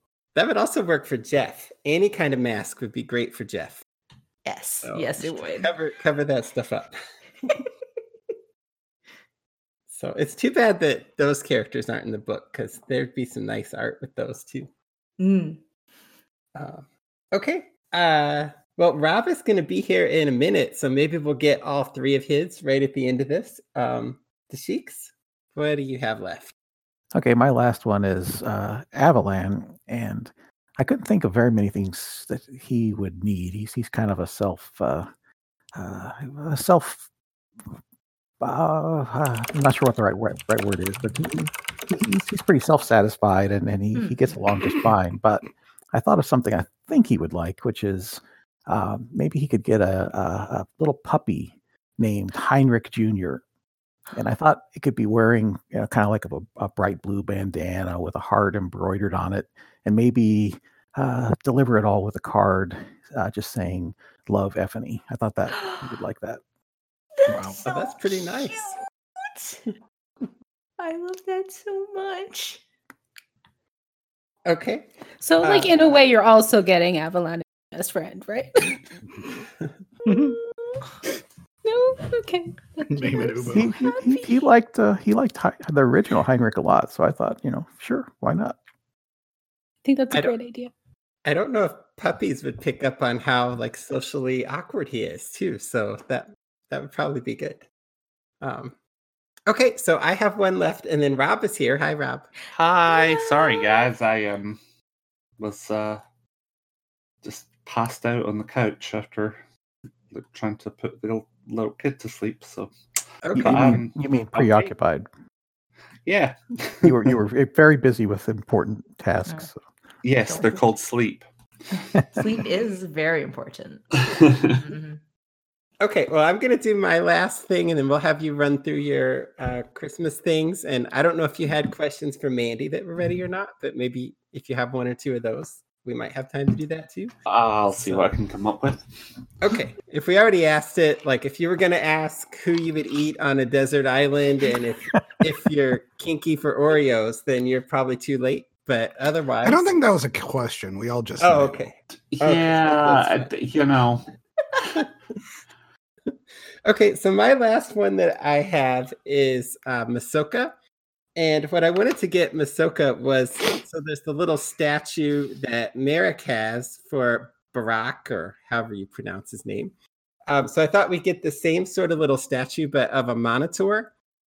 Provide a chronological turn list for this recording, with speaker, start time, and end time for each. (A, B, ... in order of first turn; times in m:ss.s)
0:00.3-0:03.8 A
0:04.4-0:05.7 B
0:04.8-0:07.6 A
0:09.9-0:14.7 A
0:15.2-0:15.6 B
0:16.5-0:26.5 A
0:27.1-0:35.1 C
0:35.8-0:37.0 C
0:38.4-0:53.4 C
0:44.0-0:44.3 B
0:54.1-1:06.4 C
1:07.2-1:09.6 B
1:07.3-1:07.6 D
1:07.6-1:08.8 A
1:10.8-1:12.6 B
1:14.4-1:14.9 A
1:15.2-1:18.8 E
1:15.4-1:15.8 A
1:20.1-1:20.8 E
1:21.6-1:23.6 E
1:22.9-1:23.7 D
1:23.5-1:28.6 C
1:23.7-1:24.3 B
1:29.8-1:30.7 E
1:31.2-1:37.7 A
1:38.4-1:38.7 A
1:39.5-1:42.4 A
1:42.5-1:44.6 F
1:42.9-1:43.8 B
1:45.4-1:46.0 F
1:47.2-1:49.4 F
1:50.1-1:52.7 F
1:53.2-1:53.8 A
1:53.3-1:55.1 C
1:53.4-1:54.7 F
1:56.0-1:57.1 F
1:56.8-1:59.6 C
2:00.0-2:01.2 F
2:00.3-2:00.6 B
2:02.1-2:05.0 B
2:04.2-2:04.5 F
2:05.8-2:17.1 A
2:17.2-2:18.8 F
2:17.8-2:18.1 A
2:19.4-2:29.8 A
2:29.4-2:31.6 D
2:31.2-2:33.3 A
2:32.1-2:34.0 F
2:36.6-2:40.5 A
2:41.2-2:49.7 A
2:50.3-2:53.9 A